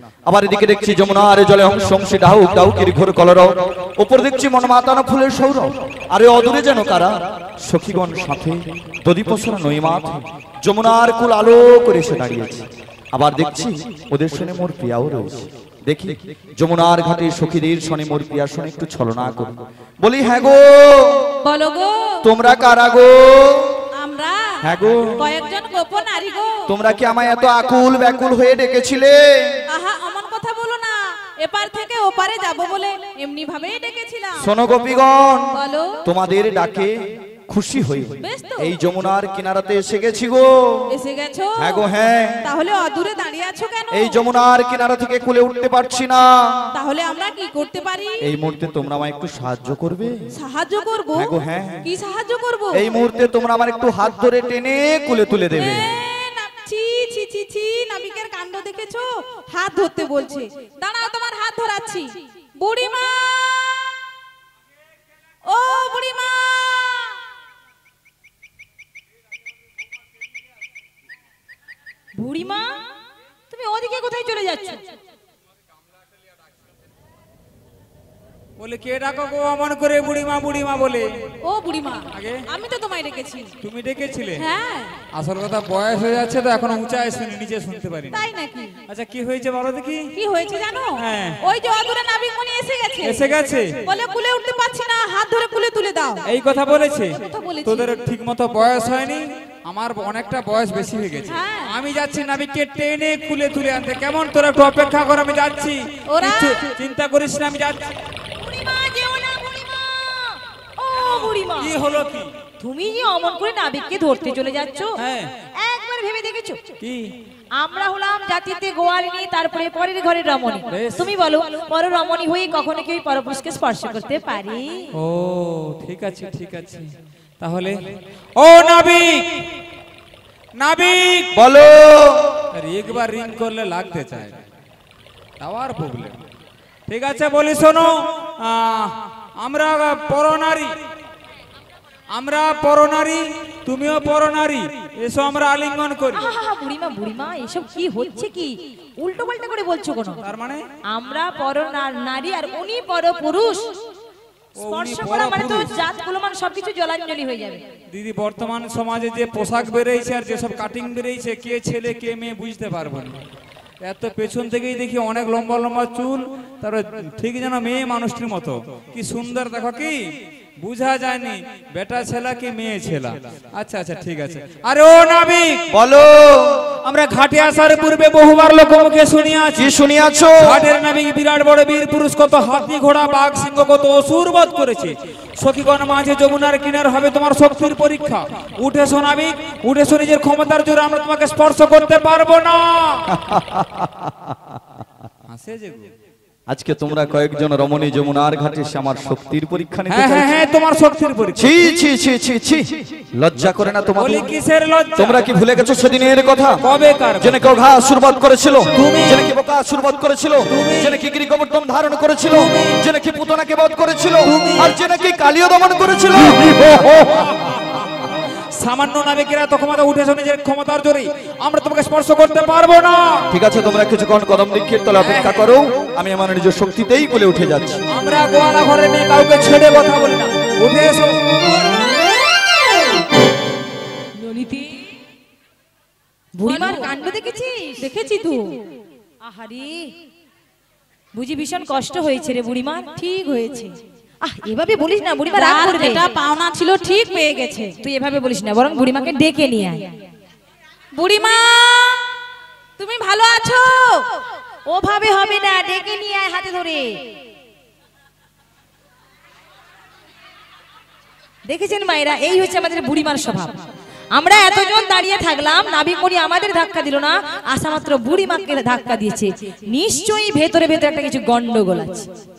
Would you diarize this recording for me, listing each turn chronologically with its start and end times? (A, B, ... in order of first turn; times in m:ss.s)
0:00.2-0:21.3 A
0:21.4-0:22.2 B
0:22.2-0:23.8 A
0:24.0-0:24.6 B
0:24.6-0:25.2 A
0:25.2-0:26.7 B
0:26.6-0:29.6 A
0:29.7-0:34.5 B
0:34.4-0:40.6 A
0:35.5-0:36.0 B
0:38.2-0:38.7 B
0:40.9-0:41.9 B
0:41.6-0:42.4 A
0:42.4-0:44.2 B
0:43.9-0:46.3 A
0:46.7-0:48.3 B
0:48.2-0:50.1 A
0:50.4-0:51.3 B
0:51.1-0:51.8 A
0:51.8-0:52.9 B
0:52.7-0:55.9 A
0:55.6-1:03.9 B
1:05.4-1:07.2 B
1:12.2-1:12.7 C
1:13.5-1:14.8 C
1:18.6-1:21.1 D
1:21.4-1:23.5 B
1:22.1-1:22.4 D
1:23.6-1:24.4 D
1:24.4-1:24.9 B
1:25.1-1:28.2 D
1:28.1-1:28.8 B
1:28.9-1:30.1 D
1:30.1-1:36.2 B
1:31.0-1:31.4 D
1:33.0-1:33.8 D
1:36.2-1:47.9 D
1:37.2-1:37.9 B
1:41.3-1:41.7 B
1:46.1-1:46.7 B
1:48.4-1:51.7 C
1:51.0-1:52.3 D
1:52.6-1:55.0 C
1:55.0-1:55.3 D
1:55.6-1:56.6 C
1:56.8-1:57.1 D
1:57.6-2:04.9 C
2:00.7-2:01.1 D
2:04.9-2:06.9 D
2:07.4-2:07.8 D
2:08.4-2:09.4 D
2:10.6-2:11.3 D
2:11.3-2:12.4 A
2:12.6-2:14.4 D
2:15.4-2:16.2 D
2:16.9-2:20.7 D
2:22.1-2:26.3 D
2:26.1-2:30.2 C
2:30.2-2:30.6 D
2:30.9-2:33.7 C
2:34.6-2:35.7 D
2:34.6-2:37.6 C
2:37.9-2:43.2 D
2:43.8-2:50.0 D
2:50.6-2:55.6 D
2:55.7-2:56.6 A
2:56.8-2:59.7 D
2:59.6-3:00.6 A
3:00.4-3:13.1 D
3:13.1-3:14.6 A
3:15.3-3:15.9 D
3:16.5-3:20.3 A
3:19.9-3:21.5 D
3:21.4-3:24.3 A
3:24.0-3:25.9 D
3:25.0-3:26.6 A
3:26.6-3:27.5 D
3:27.2-3:37.4 A
3:28.7-3:29.3 D
3:30.5-3:31.0 D
3:32.3-3:32.8 D
3:34.2-3:34.7 D
3:38.6-3:43.2 D
3:43.3-3:47.8 A
3:45.0-3:45.5 D
3:47.9-3:51.4 D
3:54.2-3:54.7 B
3:56.4-3:57.8 C
3:56.4-3:57.0 B
3:57.8-3:58.5 B
3:59.2-3:59.9 C
4:01.1-4:02.9 C
4:03.0-4:03.7 B
4:04.2-4:06.1 C
4:05.3-4:07.7 B
4:07.8-4:09.9 C
4:10.9-4:12.0 B
4:12.8-4:14.0 B
4:14.7-4:17.0 C
4:21.4-4:23.6 C
4:24.1-4:32.1 C